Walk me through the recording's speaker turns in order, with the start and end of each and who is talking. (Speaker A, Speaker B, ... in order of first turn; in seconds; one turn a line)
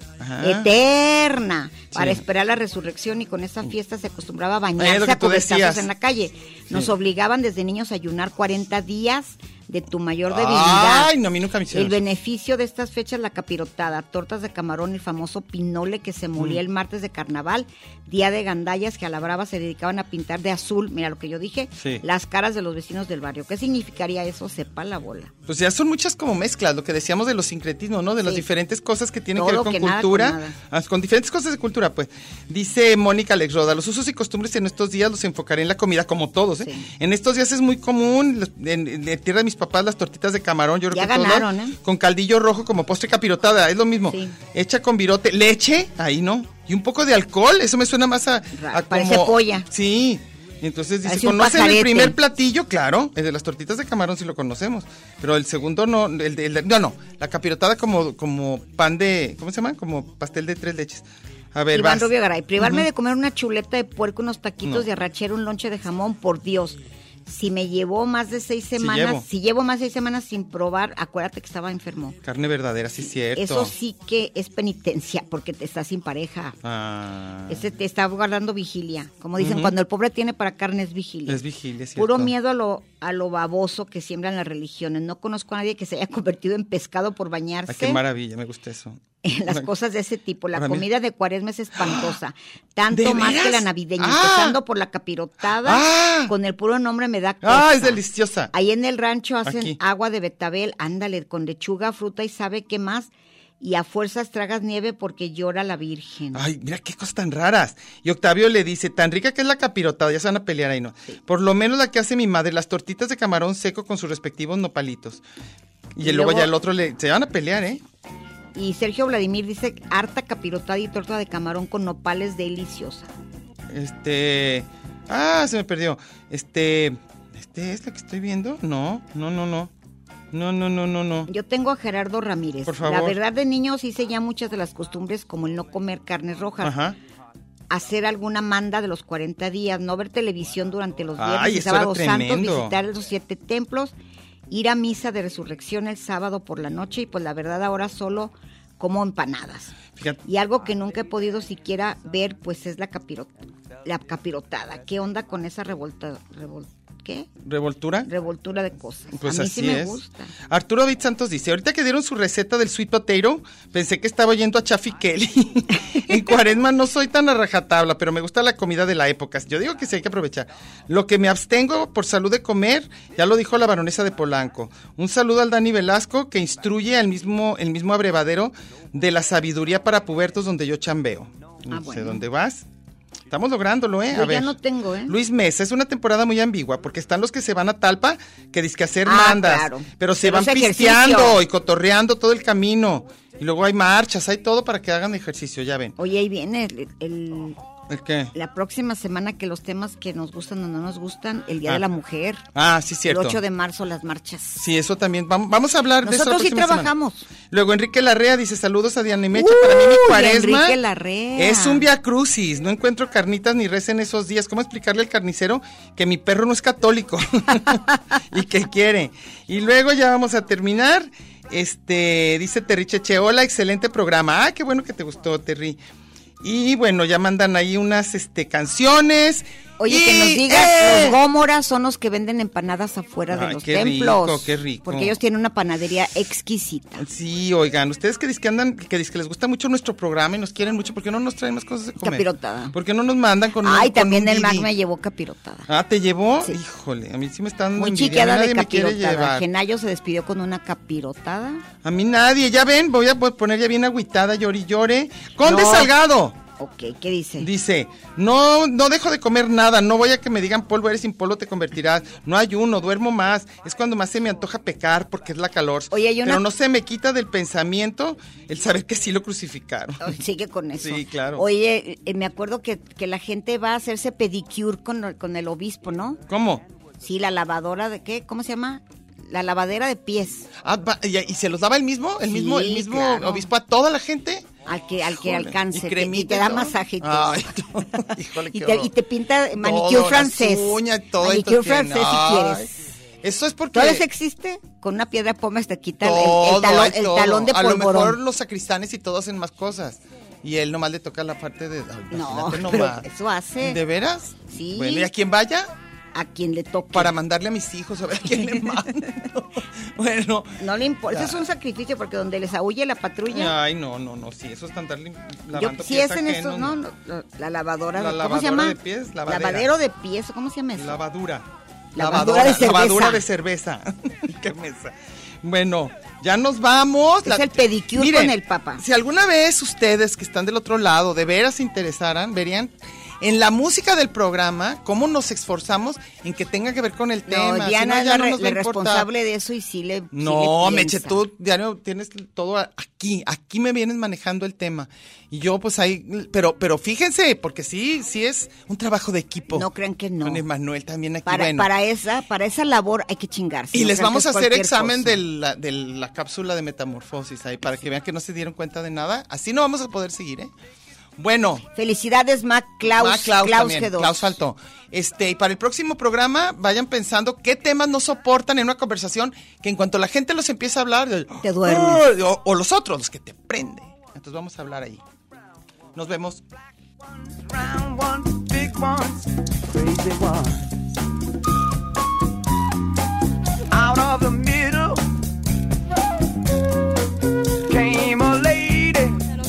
Speaker A: 0.2-0.7
Speaker B: 0.4-11.1
Speaker A: 1.9-2.2
Speaker A: 4.8-5.9
Speaker A: 10.3-12.0
Speaker B: 11.7-25.3
Speaker A: 21.8-22.0
Speaker A: 25.5-62.9
Speaker B: 29.3-30.6
Speaker B: 36.6-36.9
Speaker B: 40.9-41.8
Speaker B: 44.1-44.4
Speaker B: 48.5-49.7
Speaker B: 51.0-52.2
Speaker B: 61.7-72.2
Speaker A: 68.8-69.2
Speaker A: 72.2-73.7
Speaker B: 73.0-76.6
Speaker A: 76.6-77.7
Speaker B: 77.5-81.4
Speaker A: 79.4-79.7
Speaker A: 81.3-82.3
Speaker B: 82.0-88.0
Speaker A: 87.7-89.7
Speaker B: 89.2-98.0
Speaker A: 90.5-90.8
Speaker A: 91.8-92.1
Speaker A: 92.9-94.6
Speaker A: 95.6-96.3
Speaker A: 97.4-98.5
Speaker B: 98.5-106.4
Speaker A: 99.4-99.8
Speaker A: 106.3-115.2
Speaker A: 116.0-117.8
Speaker B: 116.0-116.5
Speaker B: 118.5-123.1
Speaker A: 123.7-129.7
Speaker A: 130.3-131.3
Speaker B: 131.3-136.7
Speaker A: 132.7-133.2
Speaker A: 136.6-137.0
Speaker B: 137.7-143.9
Speaker A: 141.2-142.8
Speaker B: 144.5-157.3
Speaker A: 149.9-150.2
Speaker A: 157.4-158.1
Speaker B: 158.0-160.3
Speaker A: 159.2-182.7
Speaker B: 181.7-182.2
Speaker A: 183.3-184.5
Speaker B: 184.1-185.2
Speaker A: 185.1-195.9
Speaker B: 189.0-191.4
Speaker B: 196.0-197.6
Speaker A: 197.9-198.3
Speaker B: 198.3-202.4
Speaker A: 202.5-203.4
Speaker B: 203.1-204.6
Speaker A: 204.6-206.9
Speaker B: 206.0-207.3
Speaker A: 207.5-210.8
Speaker B: 209.3-211.8
Speaker A: 211.3-225.8
Speaker A: 226.4-231.2
Speaker B: 229.8-237.0
Speaker A: 233.3-235.2
Speaker A: 237.0-244.7
Speaker B: 242.0-242.7
Speaker B: 243.6-245.7
Speaker A: 245.7-249.4
Speaker B: 247.8-251.6
Speaker A: 251.8-256.4
Speaker B: 255.4-255.9
Speaker B: 256.6-257.5
Speaker A: 257.4-270.2
Speaker B: 265.9-266.4
Speaker B: 270.0-276.2
Speaker A: 270.8-271.4
Speaker A: 276.3-276.6
Speaker B: 277.0-280.5
Speaker A: 280.6-284.5
Speaker B: 282.2-283.5
Speaker B: 284.6-288.0
Speaker A: 285.1-288.9
Speaker B: 288.5-292.8
Speaker A: 289.6-292.7
Speaker A: 293.2-294.0
Speaker B: 293.7-298.2
Speaker A: 296.0-303.0
Speaker B: 302.1-303.8
Speaker A: 303.6-305.7
Speaker B: 304.5-305.1
Speaker B: 306.1-307.1
Speaker A: 306.9-311.5
Speaker B: 310.6-313.5
Speaker A: 313.3-316.8
Speaker B: 315.5-321.0
Speaker A: 317.9-319.7
Speaker A: 320.8-339.1
Speaker B: 321.9-323.2
Speaker B: 327.2-328.8
Speaker B: 337.3-341.2
Speaker A: 340.1-349.7
Speaker B: 349.5-350.4
Speaker A: 350.2-351.7
Speaker B: 351.2-355.2
Speaker A: 353.7-360.5
Speaker A: 361.2-361.6
Speaker B: 361.7-364.4
Speaker A: 362.8-375.0
Speaker B: 371.4-372.0
Speaker A: 375.9-376.4
Speaker C: 377.5-380.6
Speaker C: 383.7-385.0
Speaker C: 387.7-389.2